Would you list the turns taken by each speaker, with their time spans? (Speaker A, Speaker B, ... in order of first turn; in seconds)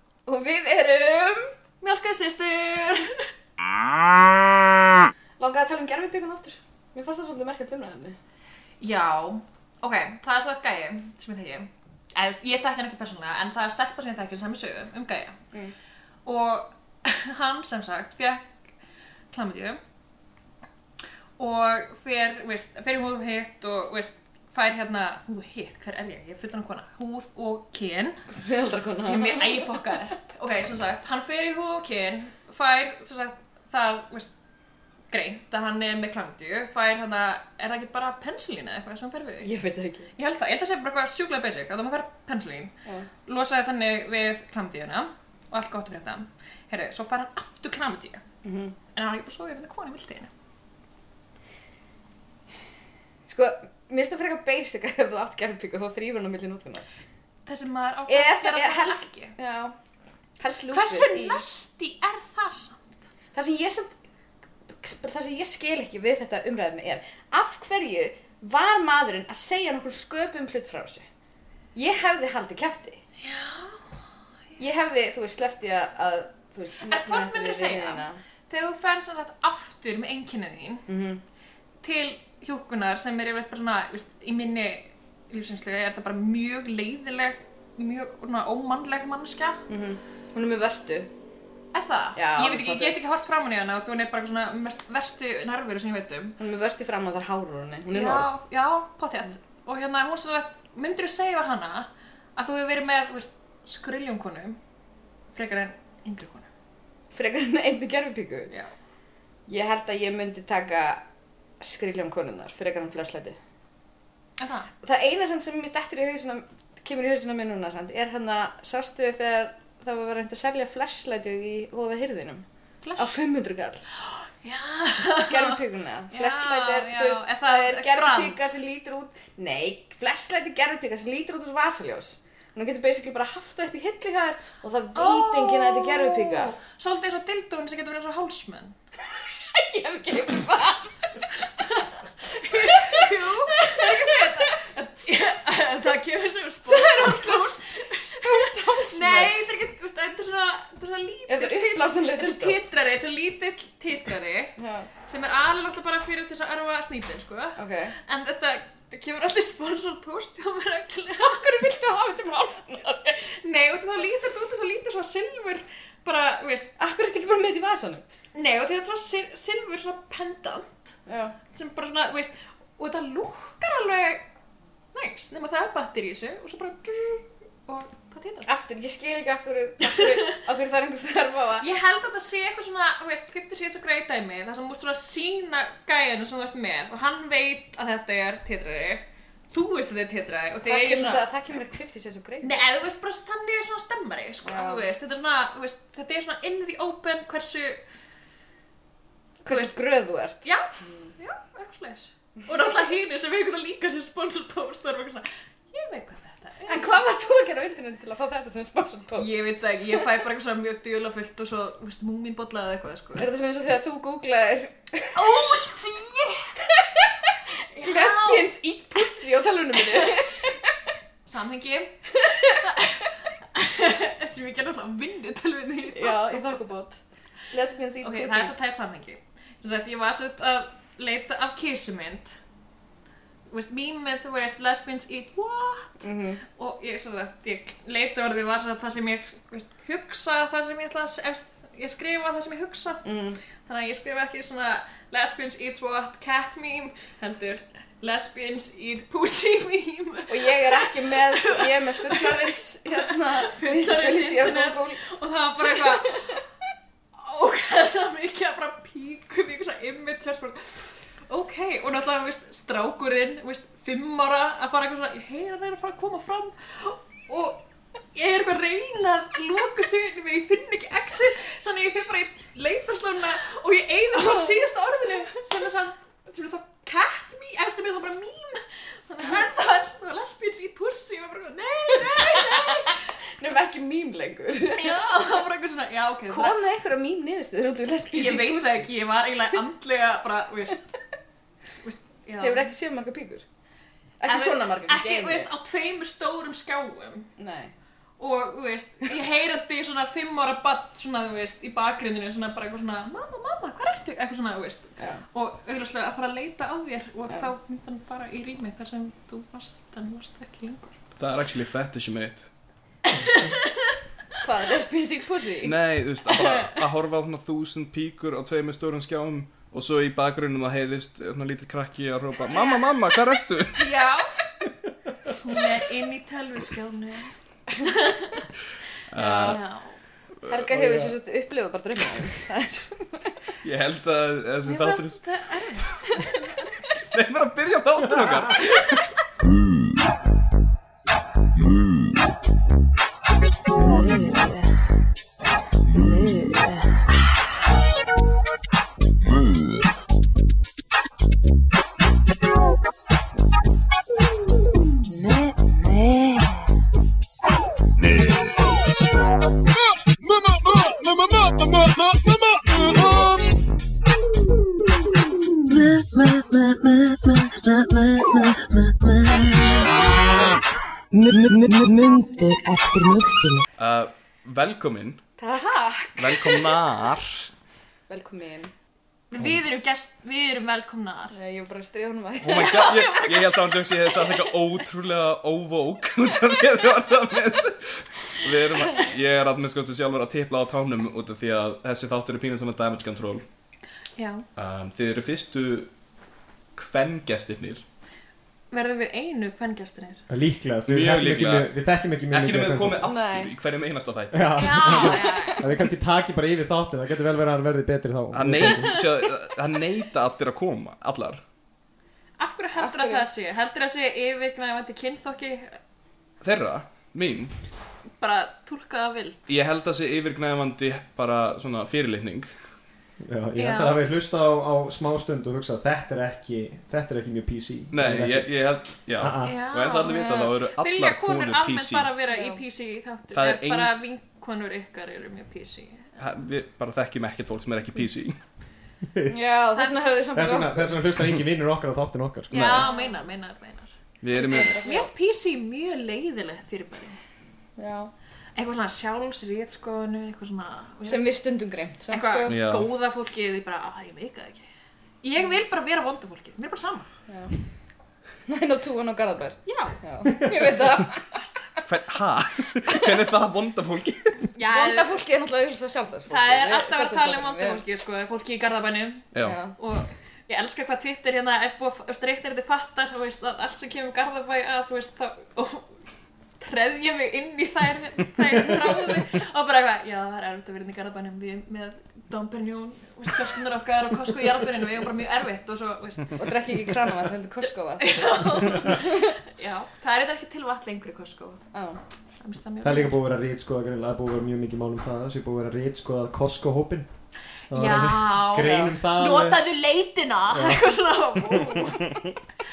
Speaker A: 0.3-1.5, 5.4-8.2, 28.3-29.8, 39.4-40.1, 48.4-48.8, 53.3-56.9, 58.1-59.8, 60.4-61.4, 63.3-63.9, 64.7-71.0, 71.8-73.0, 74.6-78.2, 80.9-81.2, 89.7-91.1, 92.2-93.0, 96.4-98.3, 107.1-108.5, 109.5-111.0, 111.6-113.4, 114.8-122.5, 123.0-123.8, 125.2-136.5, 139.5-141.0, 142.5-143.1, 143.7-144.2, 146.7-149.3, 151.3-152.6, 154.6-154.9, 157.6-157.9, 161.2-163.2, 166.8-168.0, 171.1-171.3, 178.5-181.7, 190.6-192.6, 194.4-194.9, 199.4-200.5, 206.7-210.0, 213.2-215.2, 216.9-220.5, 225.9-227.0, 227.5-228.6, 236.0-236.4, 243.0-243.4, 250.3-255.0, 255.7-256.4, 282.2-282.8, 283.4-285.2, 286.3-288.9, 292.4-293.4, 294.2-295.5, 297.4-297.7, 314.4-315.8, 322.5-322.8, 329.2-329.6, 330.5-333.4, 375.4-376.7, 378.1-378.7, 381.3-382.8, 403.0-403.5, 404.9-405.7, 412.8-413.2, 430.1-430.5, 432.3-432.6, 439.3-441.0, 442.6-443.1, 444.3-445.1, 447.8-448.1, 451.1-452.6, 457.3-457.6, 458.5-461.4, 464.6-467.8, 469.4-469.7, 486.4-489.3, 491.7-492.0
Speaker B: 1.8-3.3, 8.8-15.4, 16.3-18.5, 19.3-19.8, 21.4-28.2, 29.1-34.3, 35.1-39.6, 40.2-42.7, 43.3-48.2, 49.0-50.3, 57.5-59.3, 60.7-63.0, 73.2-73.8, 76.8-80.9, 81.8-89.6, 91.7-96.4, 97.9-104.6, 105.3-106.5, 114.4-114.7, 122.8-123.2, 124.0-128.4, 134.9-138.8, 141.6-154.6, 155.1-161.6, 163.2-166.8, 168.3-170.9, 171.5-174.3, 174.9-178.5, 179.8-180.4, 181.6-191.2, 192.4-197.8, 199.5-199.8, 200.4-207.0, 209.2-213.3, 215.1-216.6, 217.7-218.5, 219.9-220.2, 221.3-222.0, 222.6-226.6, 228.0-232.4, 233.5-243.0, 243.6-256.4, 257.2-283.0, 284.7-286.6, 288.1-290.9, 291.7-292.7, 294.2-297.3, 298.2-311.0, 313.1-313.9, 316.3-316.8, 323.8-324.4, 325.3-328.4, 329.4-330.0, 334.6-336.7, 379.3-381.4, 382.5-384.5, 394.2-394.4, 398.7-400.2, 404.6-405.6, 408.6-409.0, 412.4-415.8, 418.2-419.5, 423.6-424.0, 429.4-436.1, 442.5-443.9, 444.8-447.2, 448.6-451.4, 452.1-454.7, 455.2-457.1, 459.7-460.0, 464.6-465.2, 466.3-475.9, 476.6-486.5, 488.0-491.6, 492.4-493.2, 497.7-502.2
Speaker C: 311.2-312.5, 315.6-323.9, 329.1-329.6, 333.6-335.2, 337.1-339.1, 373.8-375.2, 376.2-377.5, 382.4-393.4, 394.6-395.9, 396.8-397.8, 400.9-401.7, 402.3-405.1, 408.3-411.4, 416.4-417.6, 419.5-422.5, 427.9-432.1, 433.3-433.9, 436.2-438.4, 444.2-444.8, 452.5-452.9, 461.9-464.5, 469.3-469.6
Speaker D: 330.7-331.1, 400.3-403.0, 404.3-409.0, 423.2-428.5, 429.2-429.6, 439.1-439.4, 440.3-442.9, 492.8-497.1, 497.7-499.6, 500.5-500.9
Speaker E: 343.8-344.6, 346.0-346.9, 355.2-356.5, 365.8-368.5, 371.1-373.6